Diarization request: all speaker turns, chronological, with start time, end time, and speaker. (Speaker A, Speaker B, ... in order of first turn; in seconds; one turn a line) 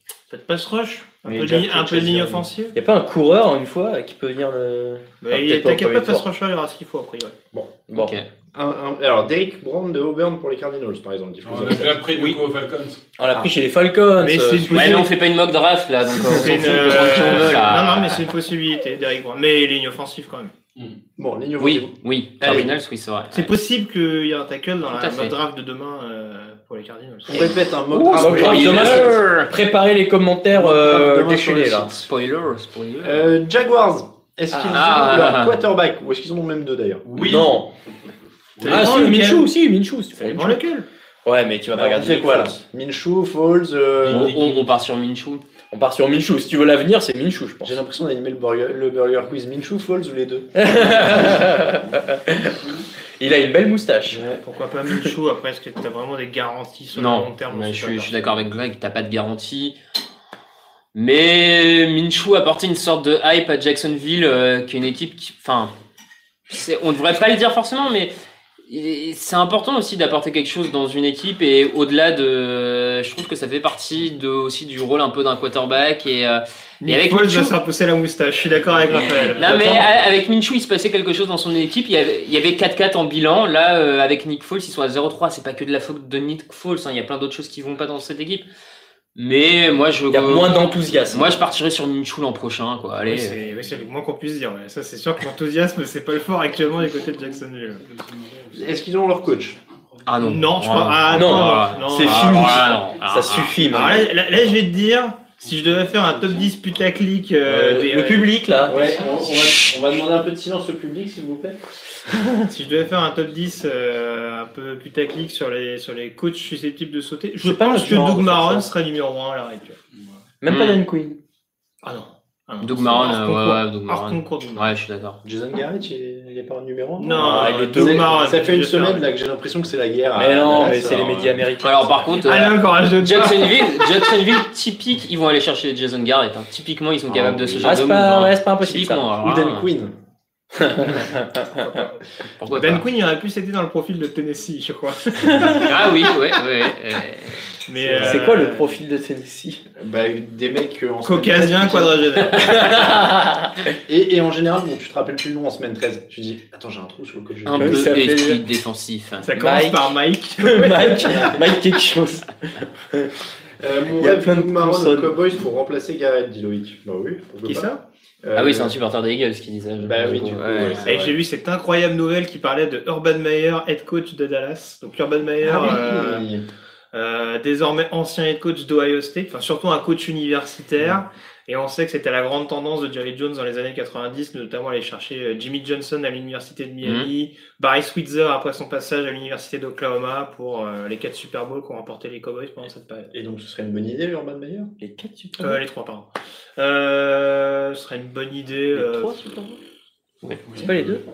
Speaker A: 0.3-2.8
Speaker B: 1.3-6.2
Speaker A: 5.2-7.4
Speaker C: 7.5-7.8
Speaker B: 7.9-8.2
Speaker D: 8.0-8.3
Speaker C: 8.5-12.1
Speaker E: 11.4-13.0
Speaker B: 13.2-15.1
Speaker A: 14.2-15.1
Speaker D: 14.7-18.2
Speaker B: 16.3-17.6
Speaker A: 16.3-20.5
Speaker C: 21.2-22.7
Speaker D: 21.6-23.5
Speaker A: 23.3-27.4
Speaker D: 24.9-25.3
Speaker C: 27.3-29.2
Speaker D: 27.9-29.5
Speaker B: 27.9-31.9
Speaker C: 30.5-32.0
Speaker D: 31.8-33.3
Speaker C: 33.0-37.1
Speaker B: 34.5-35.2
Speaker D: 34.7-35.6
Speaker E: 37.2-37.5
Speaker B: 37.2-37.7
Speaker A: 38.6-39.5
Speaker E: 38.6-38.9
Speaker B: 38.7-40.6
Speaker A: 40.2-40.9
Speaker B: 41.2-42.6
Speaker C: 41.7-44.3
Speaker D: 44.1-45.4
Speaker E: 44.1-44.7
Speaker B: 45.7-47.7
Speaker C: 47.6-51.2
Speaker B: 50.6-52.6
Speaker B: 53.2-54.3
Speaker A: 54.4-58.4
Speaker D: 57.0-59.8
Speaker D: 61.0-65.7
Speaker D: 66.5-68.1
Speaker D: 68.7-77.5
Speaker A: 76.8-79.8
Speaker D: 79.4-88.5
Speaker D: 89.2-90.5
Speaker B: 90.1-91.4
Speaker D: 91.1-93.4
Speaker A: 93.0-97.8
Speaker E: 98.0-98.5
Speaker C: 98.5-99.6
Speaker D: 100.1-103.9
Speaker A: 100.2-102.7
Speaker B: 101.1-104.1
Speaker A: 103.7-108.3
Speaker B: 107.5-108.9
Speaker C: 108.7-111.6
Speaker A: 112.5-119.8
Speaker B: 117.4-118.7
Speaker B: 120.4-121.2
Speaker D: 120.5-120.8
Speaker A: 121.8-124.7
Speaker D: 122.6-125.2
Speaker C: 125.2-131.4
Speaker A: 127.0-129.1
Speaker B: 127.2-128.2
Speaker B: 130.2-132.3
Speaker D: 131.6-139.7
Speaker A: 132.2-133.9
Speaker C: 137.1-138.0
Speaker B: 137.6-139.1
Speaker C: 139.2-139.9
Speaker B: 140.6-141.7
Speaker D: 142.4-142.8
Speaker A: 142.5-145.7
Speaker B: 145.3-145.6
Speaker D: 145.6-147.4
Speaker A: 147.7-148.8
Speaker C: 147.8-148.3
Speaker B: 148.0-149.6
Speaker C: 149.8-152.2
Speaker A: 151.0-152.8
Speaker B: 152.3-153.6
Speaker C: 153.9-157.9
Speaker D: 157.4-159.3
Speaker B: 157.6-158.4
Speaker A: 159.2-161.4
Speaker B: 159.4-159.8
Speaker B: 160.4-163.1
Speaker C: 163.6-167.7
Speaker B: 164.0-165.1
Speaker A: 167.4-167.8
Speaker C: 168.2-168.8
Speaker D: 168.3-170.9
Speaker C: 169.8-171.2
Speaker A: 170.9-176.3
Speaker C: 175.4-176.4
Speaker A: 176.9-193.1
Speaker D: 186.8-187.1
Speaker C: 193.1-194.7
Speaker B: 194.8-195.6
Speaker A: 195.4-199.2
Speaker B: 198.7-199.6
Speaker E: 200.5-200.9
Speaker B: 200.6-201.0